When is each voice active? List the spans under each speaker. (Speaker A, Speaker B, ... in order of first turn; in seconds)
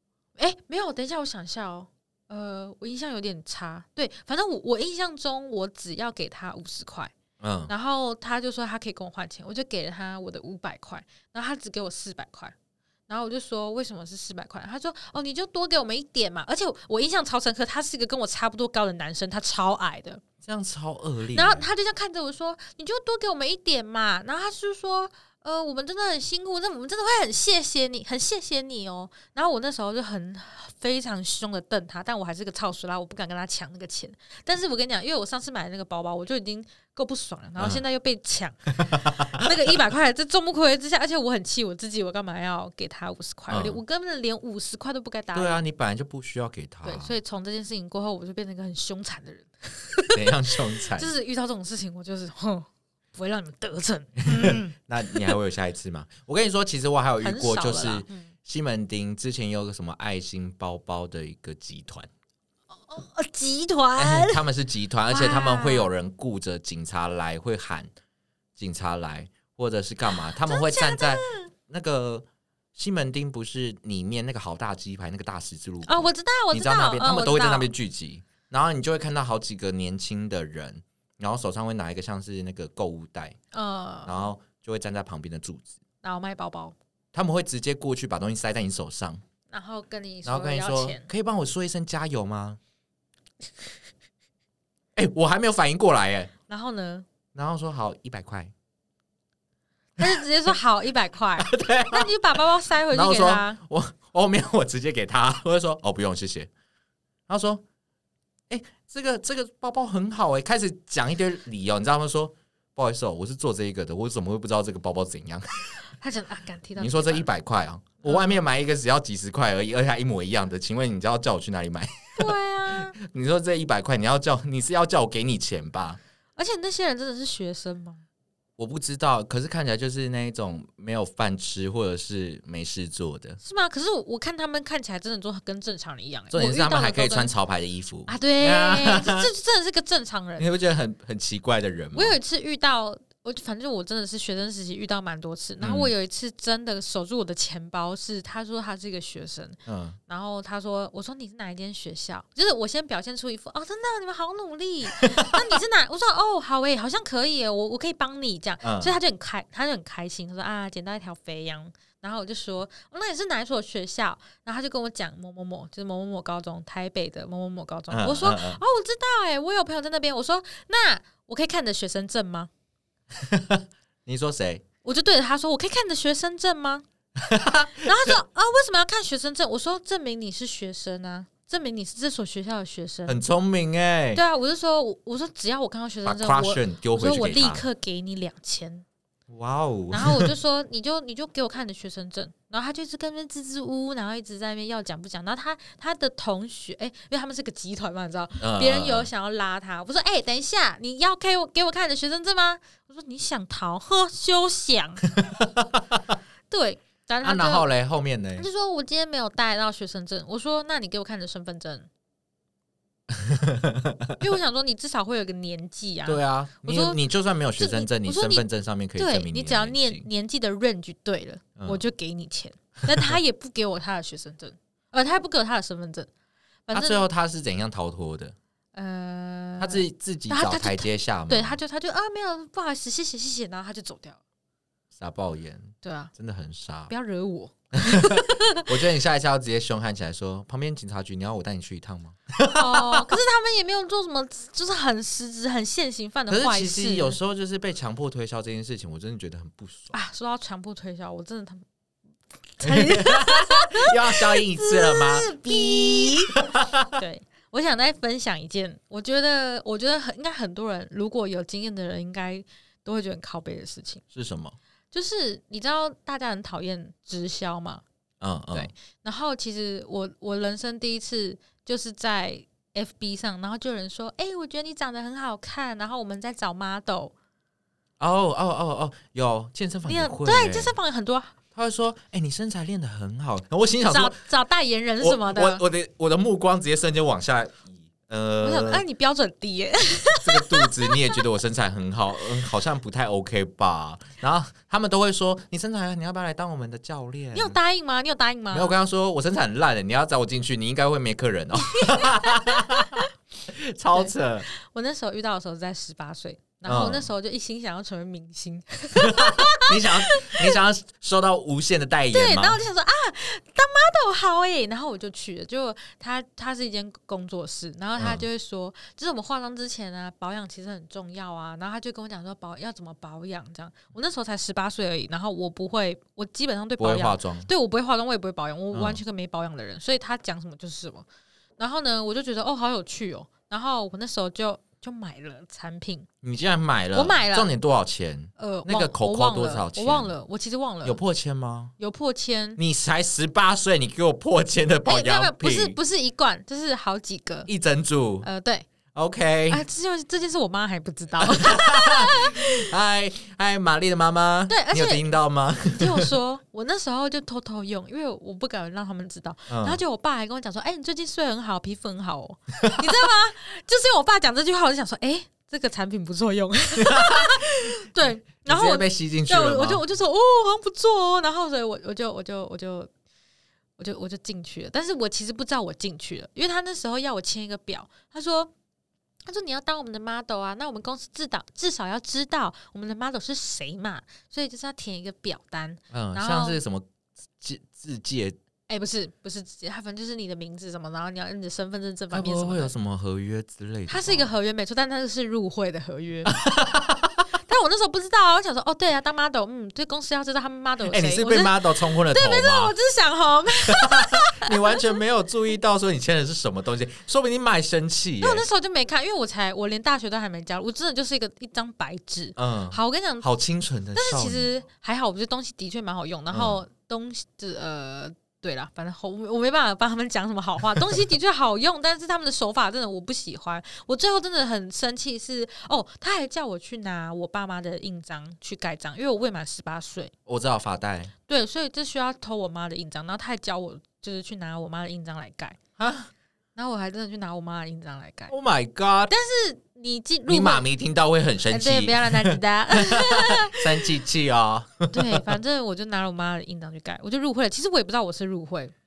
Speaker A: 0.3-7.1, 7.7-12.5, 13.1-20.2, 21.3-45.6, 46.8-55.4, 57.2-58.3, 62.7-64.4, 65.1-65.9, 70.1-71.5, 75.8-77.7, 83.5-84.2, 86.0-86.8, 89.5-91.1, 96.5-97.1, 100.0-103.6, 115.9-117.3, 118.0-118.4, 122.2-122.9, 126.3-128.0, 133.4-137.3, 138.1-140.5, 141.9-172.5, 174.8-176.8, 177.8-183.2, 184.1-188.8, 189.9-205.0, 206.5-207.7, 208.4-211.9, 214.2-217.0, 217.6-226.1, 226.7-227.0, 228.7-234.2, 235.8-236.1, 236.9-238.7, 242.5-247.2, 249.9-251.6, 252.6-256.4, 256.9-264.0, 264.9-267.8, 268.5-277.1, 279.8-281.3, 283.9-285.6, 288.4-291.2, 297.3-298.8, 301.7-303.1, 303.9-310.6, 312.1-331.1, 331.6-336.1, 336.9-337.5, 338.4-341.0, 341.8-342.6, 344.9-347.5, 348.2-348.7, 349.5-352.7, 354.5-372.9, 373.8-378.5, 379.2-386.6, 388.7-392.7, 393.9-396.4, 397.4-404.8, 408.2-413.2, 413.9-430.1, 431.3-435.6, 436.6-438.3, 439.1-440.6, 441.5-443.9, 444.9-448.7
Speaker B: 7.4-7.7, 20.4-21.7, 37.6-37.8, 38.8-39.5, 43.5-43.8, 45.3-47.2, 50.1-51.1, 54.2-62.1, 64.0-67.9, 68.5-83.4, 84.0-85.7, 87.1-89.2, 90.2-92.6, 95.0-96.3, 97.3-98.5, 101.4-106.5, 107.3-107.6, 108.5-115.8, 116.8-126.0, 128.6-133.4, 136.3-139.3, 140.4-142.2, 145.6-145.9, 149.7-150.0, 155.0-155.4, 158.6-158.9, 167.9-168.6, 173.2-174.6, 177.2-178.2, 183.1-184.2, 186.0-187.6, 189.3-190.3, 198.4-199.1, 205.1-206.0, 207.2-208.5, 213.1-214.2, 216.1-220.1, 221.6-221.8, 222.9-223.2, 226.7-228.3, 229.6-231.6, 234.9-236.9, 237.8-243.1, 246.3-249.9, 252.6-257.0, 264.1-264.6, 268.2-268.7, 278.0-280.7, 281.5-284.2, 285.0-288.8, 290.2-297.6, 298.5-304.5, 306.6-307.1, 308.9-312.6, 318.0-318.2, 326.8-327.5, 328.7-329.0, 336.2-340.1, 340.8-341.7, 342.6-345.8, 347.5-348.3, 348.9-349.6, 351.2-356.1, 359.5-359.8, 362.6-362.9, 366.8-367.7, 368.4-369.8, 385.9-388.4, 392.1-394.3, 396.2-397.2, 400.9-402.7, 403.7-408.4, 412.4-414.5, 416.3-416.6, 430.3-431.1, 435.8-436.1, 438.3-439.1, 440.3-445.3